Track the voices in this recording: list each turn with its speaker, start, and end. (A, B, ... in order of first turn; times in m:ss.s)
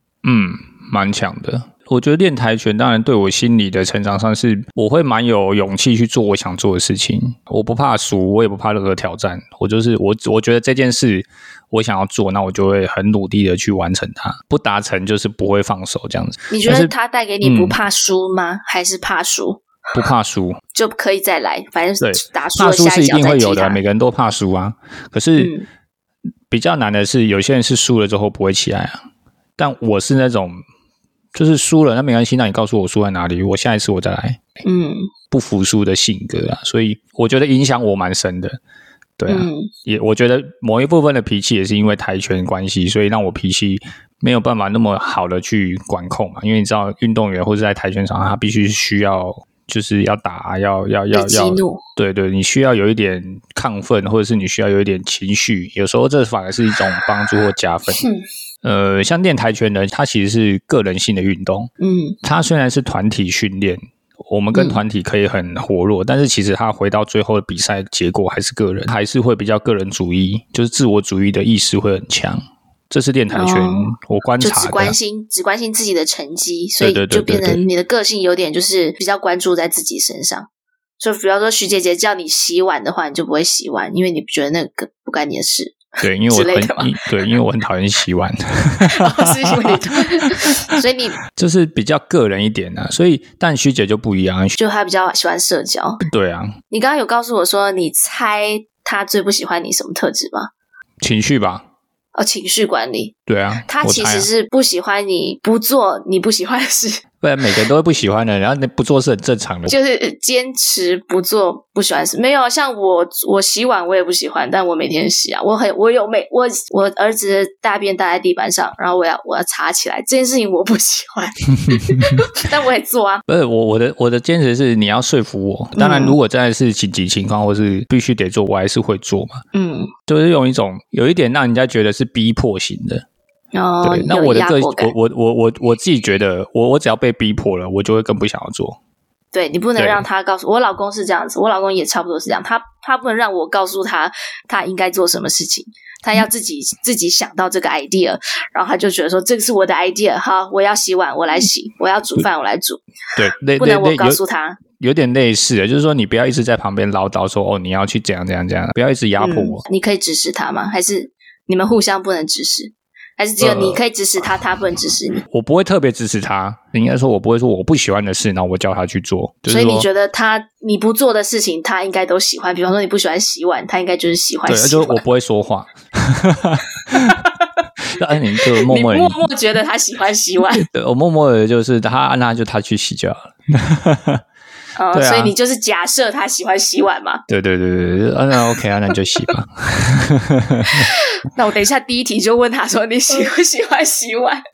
0:00.2-0:17.8 A
0:16.5-0:19.6 B
0:19.9-0:20.6 A
0:20.7-0:23.8 B
0:22.0-0:25.5 A
0:25.4-0:25.7 B
0:26.5-0:29.0 A
0:29.6-0:30.6 A
0:31.3-0:34.4 A
0:34.6-0:35.1 B
0:35.3-0:38.6 A
0:39.2-0:58.1 A
0:39.3-0:39.7 B
0:51.1-0:51.8 B
0:58.0-0:58.2 B
0:58.6-1:01.7 A
1:01.8-1:02.2 B
1:02.2-1:15.0 A
1:04.5-1:04.8 B
1:13.3-1:20.5 B
1:16.8-1:17.6 A
1:21.0-1:27.0 B
1:26.0-1:30.8 A
1:28.9-1:31.2 B
1:31.3-1:34.6 A
1:34.6-1:36.0 B
1:36.0-1:36.6 A
1:36.7-1:40.5 B
1:41.0-1:41.6 A
1:42.1-1:43.2 B
1:43.3-1:44.3 A
1:43.7-1:47.0 B
1:47.2-1:49.7 A
1:49.7-2:03.2 B
2:03.3-2:09.4 A
2:05.8-2:06.2 B
2:09.5-2:09.9 B
2:10.1-2:13.0 A
2:13.5-2:14.9 B
2:13.8-2:18.8 A
2:19.3-2:32.8 B
2:19.8-2:20.0 A
2:33.2-2:34.2 A
2:33.6-2:34.6 B
2:34.8-2:39.6 A
2:39.2-2:45.2 B
2:43.4-2:43.8 A
2:45.3-2:49.9 A
2:49.5-2:55.0 B
2:54.5-2:57.2 A
2:57.8-2:59.2 A
2:58.6-3:00.6 B
3:00.5-3:04.2 A
3:04.8-3:07.2 B
3:04.9-3:05.3 A
3:07.3-3:10.9 A
3:10.7-3:14.4 B